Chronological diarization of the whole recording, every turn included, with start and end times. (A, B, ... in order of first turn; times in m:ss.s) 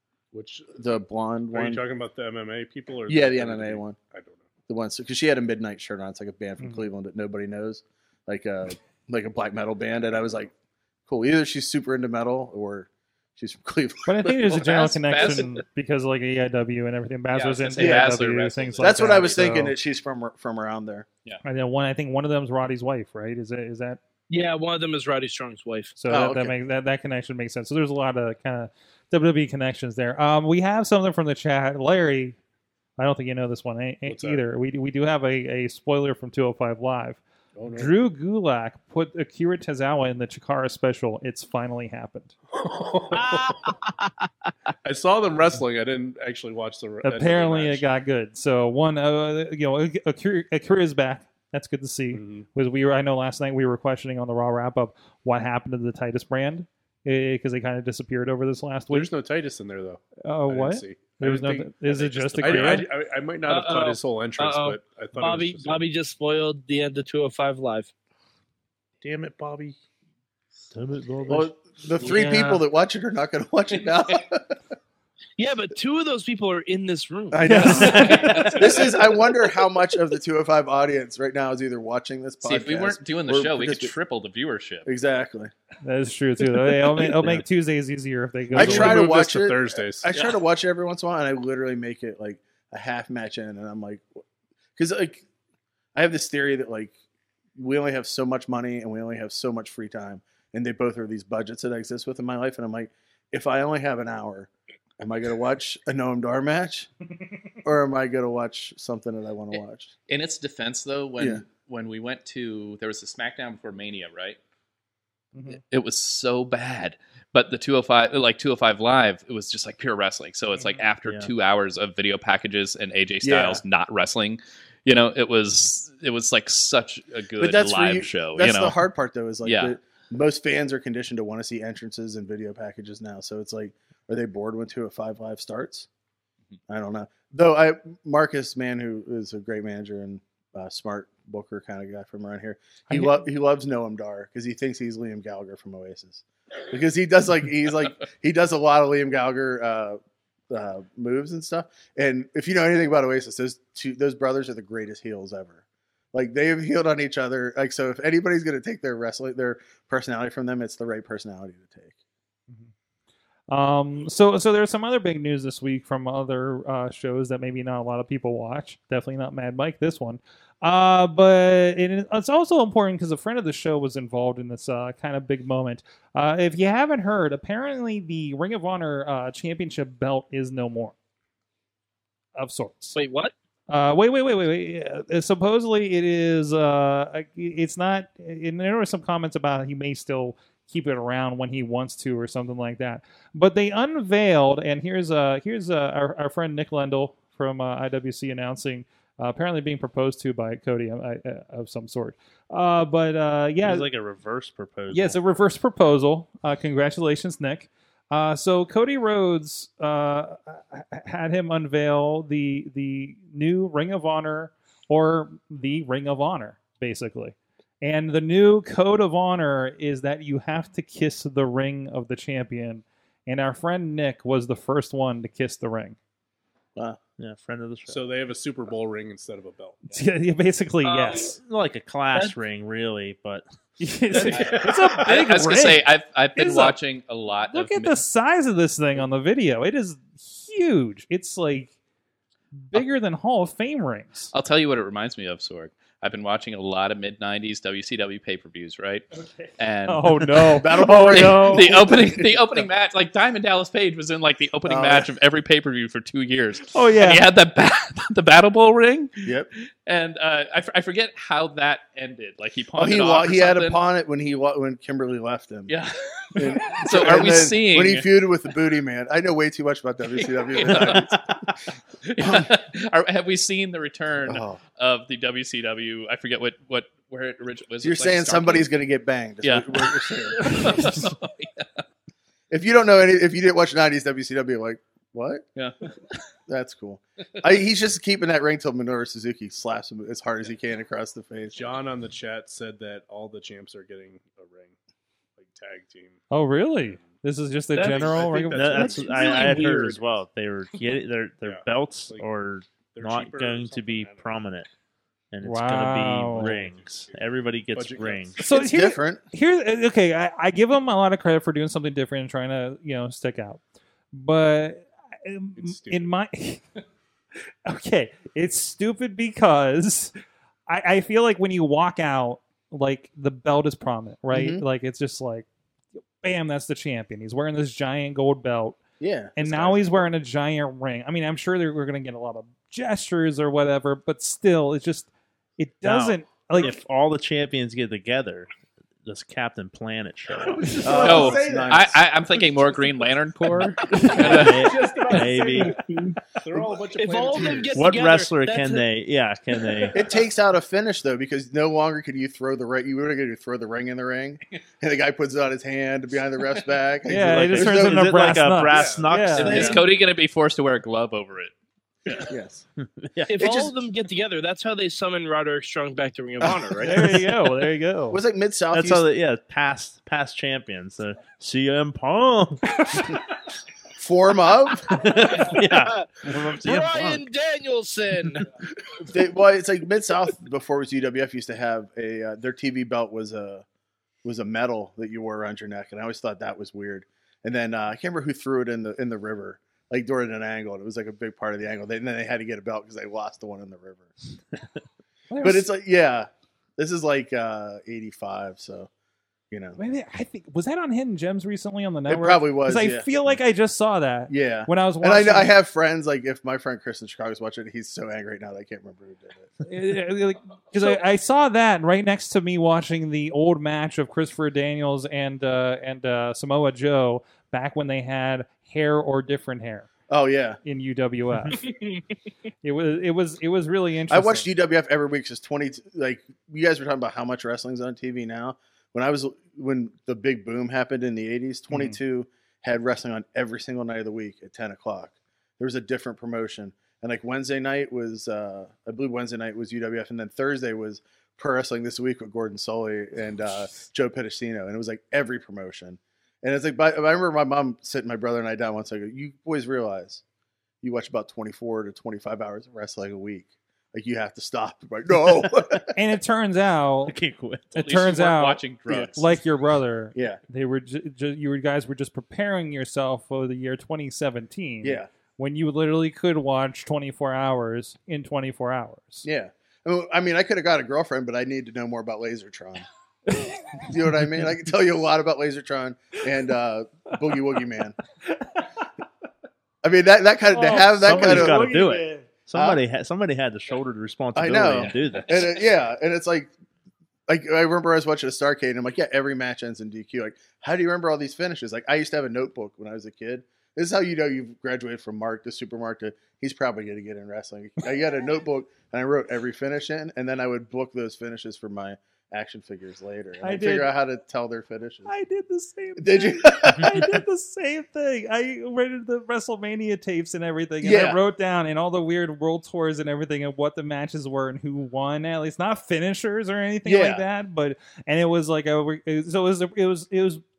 0:00.3-0:00.9 A
0:00.8-0:01.8 B
0:01.5-0:04.4 A
0:03.1-0:04.0 B
0:04.7-0:10.5 B
0:11.1-0:14.4 B
0:14.0-0:19.7 C
0:14.5-0:15.6 D
0:17.3-0:19.3 D
0:17.8-0:18.2 B
0:18.8-0:21.1 B
0:21.4-0:24.0 C
0:24.3-0:25.9 E
0:26.0-0:32.4 C
0:26.1-0:26.5 B
0:33.0-0:42.3 C
0:34.0-0:34.4 A
0:37.6-0:37.9 A
0:42.5-0:43.7 A
0:43.1-0:44.5 E
0:44.8-0:47.9 A
0:47.0-0:59.1 C
0:52.1-0:52.4 A
0:58.9-1:01.8 A
1:00.2-1:02.9 C
1:01.9-1:02.8 D
1:02.4-1:05.8 A
1:03.4-1:07.9 E
1:09.0-1:09.8 A
1:10.7-1:11.5 F
1:11.3-1:14.6 B
1:12.0-1:12.6 C
1:15.4-1:17.7 E
1:17.3-1:23.9 B
1:17.4-1:18.3 C
1:17.7-1:18.4 F
1:17.8-1:19.1 D
1:22.4-1:24.9 D
1:24.8-1:25.5 B
1:25.8-1:29.1 C
1:28.5-1:30.1 A
1:28.5-1:34.0 B
1:34.8-1:35.2 B
1:35.9-1:36.9 B
1:37.6-1:46.9 B
1:47.6-1:49.9 B
1:49.5-1:54.4 D
1:51.2-1:51.4 B
1:55.3-1:55.6 C
1:55.7-2:08.8 D
2:00.6-2:00.8 C
2:01.0-2:01.3 F
2:03.2-2:03.6 B
2:07.4-2:15.9 B
2:09.4-2:09.7 D
2:16.7-2:30.0 B
2:22.9-2:23.1 C
2:30.5-2:35.6 B
2:36.1-2:42.0 B
2:43.5-3:00.9 C
3:02.4-3:03.0 C
3:03.0-3:03.3 E
3:03.7-3:23.9 C
3:23.6-3:25.2 F
3:24.9-3:46.0 C
3:47.2-3:48.0 F
3:47.9-3:50.0 A
3:49.9-3:51.4 C
3:50.8-3:51.4 E
3:51.4-3:53.4 F
3:53.8-3:56.8 C
3:54.1-3:55.0 A
3:54.3-3:58.0 D
3:57.5-4:01.7 C
4:02.6-4:04.3 C
4:04.3-4:09.0 D
4:09.6-4:19.3 D
4:09.9-4:11.7 C
4:10.3-4:12.6 B
4:14.6-4:15.1 B
4:16.7-4:17.2 C
4:19.2-4:19.5 B
4:19.8-4:23.8 D
4:22.8-4:25.7 B
4:25.7-4:28.1 D
4:26.3-4:31.2 B
4:30.6-4:31.1 D
4:32.0-4:38.7 D
4:32.2-4:32.5 B
4:34.2-4:34.6 B
4:37.8-4:41.0 B
4:39.4-4:41.8 D
4:42.5-4:45.4 B
4:46.5-4:51.7 B
4:51.5-4:54.7 A
4:55.4-4:56.2 A
4:56.3-4:59.1 C
4:56.8-4:57.2 A
4:57.7-5:00.0 E
4:57.7-5:00.0 A
4:58.5-5:04.7 F
5:01.4-5:02.3 A
5:02.8-5:04.4 A
5:05.3-5:08.4 F
5:05.4-5:06.5 C
5:06.3-5:08.4 A
5:08.4-5:13.6 C
5:08.4-5:09.2 B
5:14.1-5:16.6 C
5:15.6-5:16.1 A
5:17.6-5:20.1 C
5:20.7-5:25.5 C
5:24.3-5:24.6 B
5:26.2-5:28.8 C
5:29.0-5:30.0 B
5:29.4-5:36.8 C
5:35.8-5:38.5 F
5:39.0-5:40.9 F
5:40.3-5:43.0 A
5:40.8-5:42.0 B
5:40.9-5:44.8 D
5:43.8-5:45.8 A
5:43.9-5:45.8 F
5:46.3-5:48.0 A
5:46.9-5:48.8 E
5:47.7-5:50.0 F
5:49.9-5:58.1 B
5:57.1-5:59.7 C
5:57.3-5:59.8 F
5:58.7-5:59.4 A
5:59.4-6:01.5 D
5:59.4-5:59.8 B
6:02.2-6:02.6 B
6:02.8-6:03.4 F
6:03.3-6:07.2 E
6:03.4-6:03.7 B
6:06.4-6:06.8 B
6:06.8-6:08.2 C
6:08.1-6:09.0 B
6:08.7-6:13.2 F
6:14.0-6:15.0 B
6:14.9-6:17.2 F
6:15.3-6:18.5 E
6:18.9-6:23.6 B
6:24.2-6:34.2 B
6:35.3-6:35.7 C
6:35.4-6:38.9 B
6:39.5-6:39.8 B
6:39.8-6:45.5 C
6:42.1-6:43.4 B
6:44.3-6:49.5 B
6:49.6-6:59.9 C
7:00.1-7:00.6 B
7:00.6-7:01.6 C
7:01.6-7:02.0 E
7:02.6-7:04.5 C
7:04.1-7:30.2 B
7:30.8-7:35.9 B
7:35.9-7:37.2 C
7:37.1-7:37.7 F
7:37.7-7:38.6 C
7:37.8-7:39.2 D
7:38.9-7:39.2 B
7:39.2-7:49.2 C
7:40.1-7:40.4 B
7:44.8-7:45.1 B
7:49.2-7:52.8 B
7:53.8-7:57.9 B
7:59.8-8:01.7 B
8:00.5-8:02.2 C
8:01.0-8:05.4 F
8:02.5-8:02.8 B
8:04.3-8:06.5 B
8:04.8-8:05.5 D
8:07.3-8:25.1 B
8:23.4-8:23.9 C
8:25.1-8:40.4 C
8:26.0-8:27.2 B
8:30.8-8:31.2 B
8:36.8-8:37.2 B